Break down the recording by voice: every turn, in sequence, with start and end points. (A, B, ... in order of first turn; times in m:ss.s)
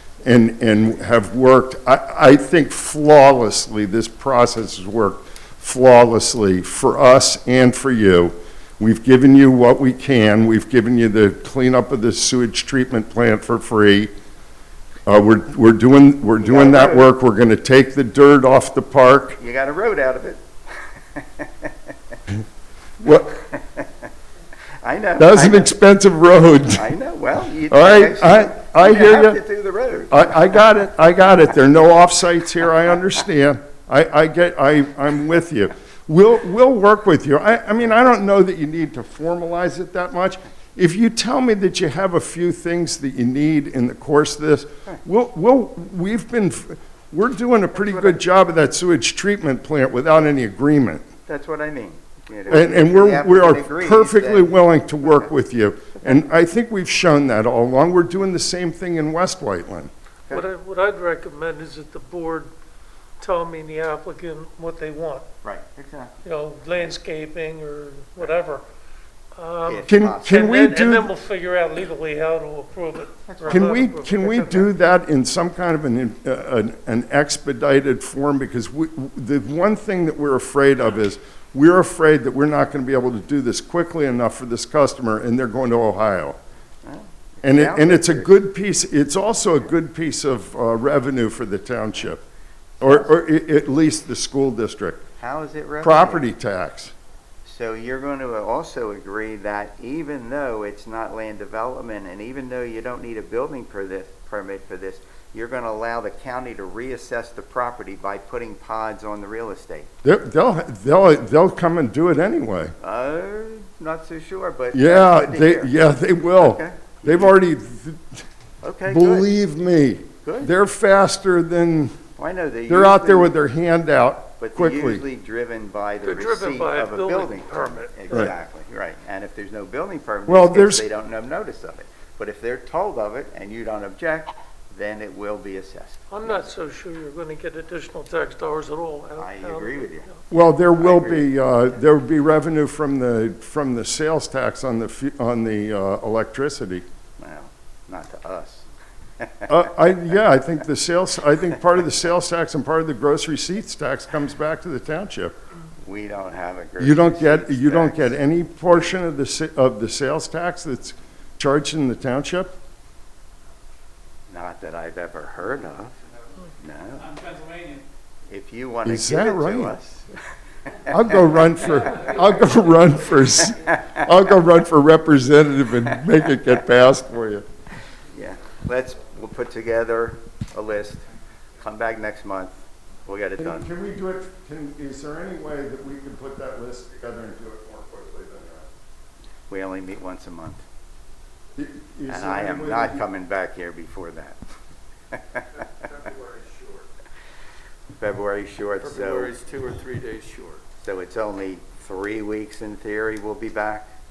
0:00.2-0:14.1 A
0:15.0-0:19.4 A
0:16.4-0:17.1 B
0:19.4-0:20.5 B
0:21.1-0:21.7 B
0:23.0-0:23.3 A
0:23.1-0:24.1 B
0:24.8-0:25.7 B
0:25.2-0:26.9 A
0:26.7-0:30.6 B
0:27.7-0:29.4 A
0:30.1-0:51.0 A
0:47.7-0:48.2 B
0:51.3-0:55.3 B
0:52.5-0:59.9 A
0:56.0-0:56.2 B
1:00.3-1:02.5 C
1:03.2-1:05.2 C
1:05.4-1:06.2 B
1:06.2-1:08.6 C
1:09.3-1:14.7 C
1:09.6-1:10.5 B
1:09.8-1:11.1 A
1:13.3-1:13.7 B
1:13.5-1:26.4 A
1:26.8-1:28.3 B
1:27.4-1:32.2 A
1:32.8-1:33.1 B
1:32.8-1:35.0 A
1:35.2-1:36.3 B
1:35.8-1:36.9 A
1:37.4-1:49.9 B
1:50.0-1:52.7 A
1:52.8-1:55.8 B
1:54.7-1:58.2 A
1:56.3-1:57.4 B
1:58.6-1:59.3 B
1:58.8-2:02.0 A
2:00.2-2:00.5 B
2:02.2-2:03.4 B
2:02.7-2:05.0 A
2:04.4-2:16.4 B
2:06.0-2:08.3 C
2:10.3-2:10.9 A
2:16.1-2:20.1 C
2:19.2-2:20.1 B
2:20.3-2:26.8 A
2:20.7-2:21.3 B
2:27.2-2:28.7 B
2:29.2-2:29.6 B
2:29.5-2:35.4 A
2:35.8-2:38.9 B
2:36.8-2:42.5 A
2:44.3-2:45.9 B
2:46.6-2:47.1 B
2:47.2-2:47.8 D
2:48.3-2:50.2 B
2:48.8-2:49.8 A
2:50.8-2:57.4 A
2:50.9-2:52.2 B
2:53.5-2:54.0 B
2:58.1-3:01.0 B
3:01.6-3:03.7 B
3:03.4-3:08.7 A
3:09.5-3:10.6 B
3:11.6-3:13.0 A
3:12.1-3:14.4 B
3:15.1-3:15.4 B
3:15.6-3:16.9 A
3:18.0-3:19.4 B
3:18.8-3:20.6 D
3:20.8-3:23.9 B